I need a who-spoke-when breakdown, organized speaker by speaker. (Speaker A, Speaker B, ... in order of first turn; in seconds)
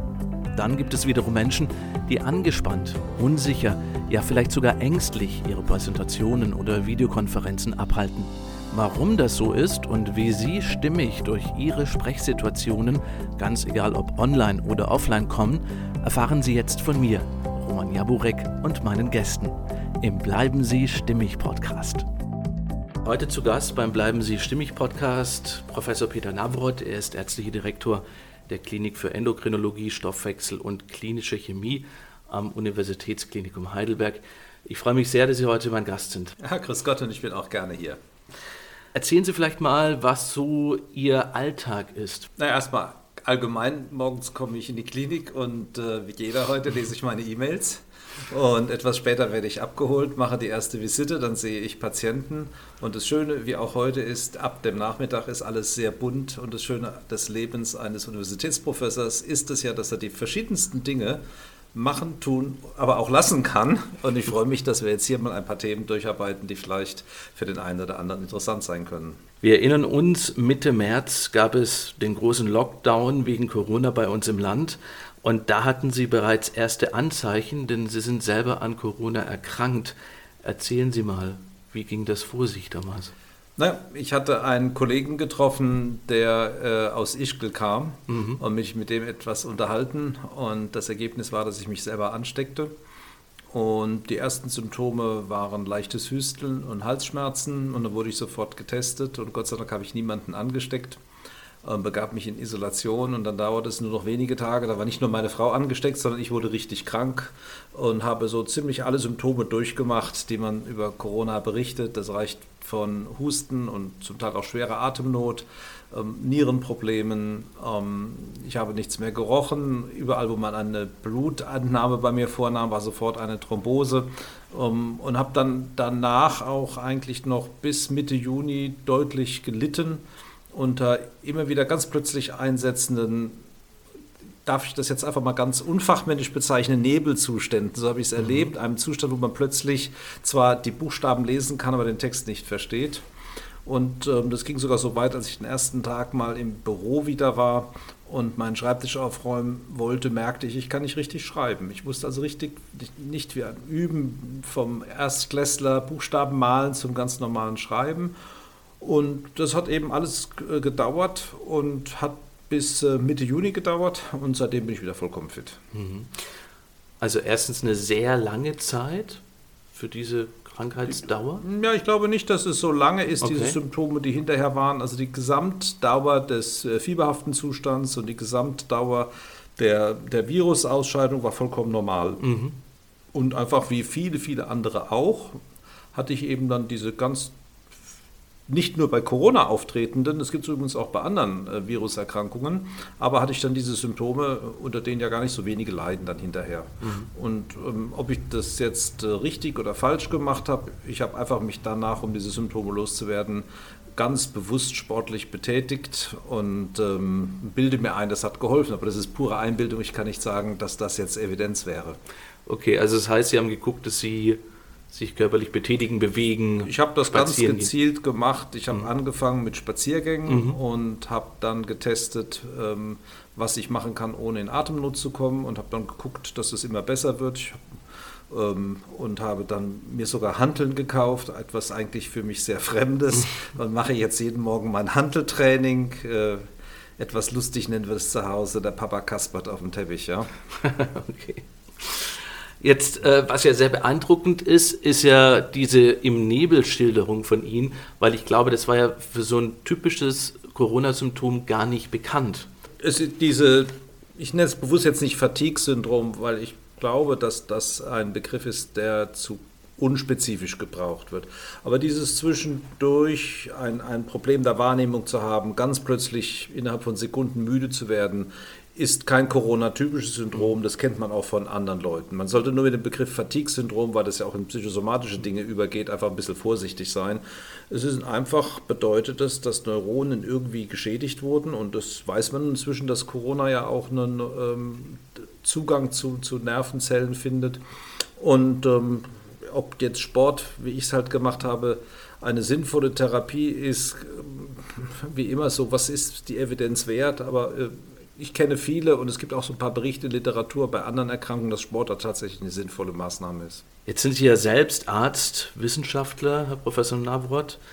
Speaker A: 0.5-22.1, 23.0-36.4, 38.9-42.3, 69.4-83.1, 88.1-88.4, 165.7-166.2, 167.0-171.4, 173.2-173.6, 182.2-182.5, 196.8-197.1, 212.4-214.4, 214.9-217.7, 220.3-220.6, 240.5-252.5, 303.9-307.6
Speaker B: 36.4-38.0, 42.4-61.2, 61.7-69.2, 83.6-92.7, 93.5-101.0, 101.6-133.4, 134.4-143.0, 143.6-158.1, 158.8-165.6, 171.4-182.2, 183.1-185.4, 185.9-187.3, 188.5-203.4, 203.9-212.0, 216.6-227.6, 228.3-240.3, 252.8-287.6, 288.2-303.6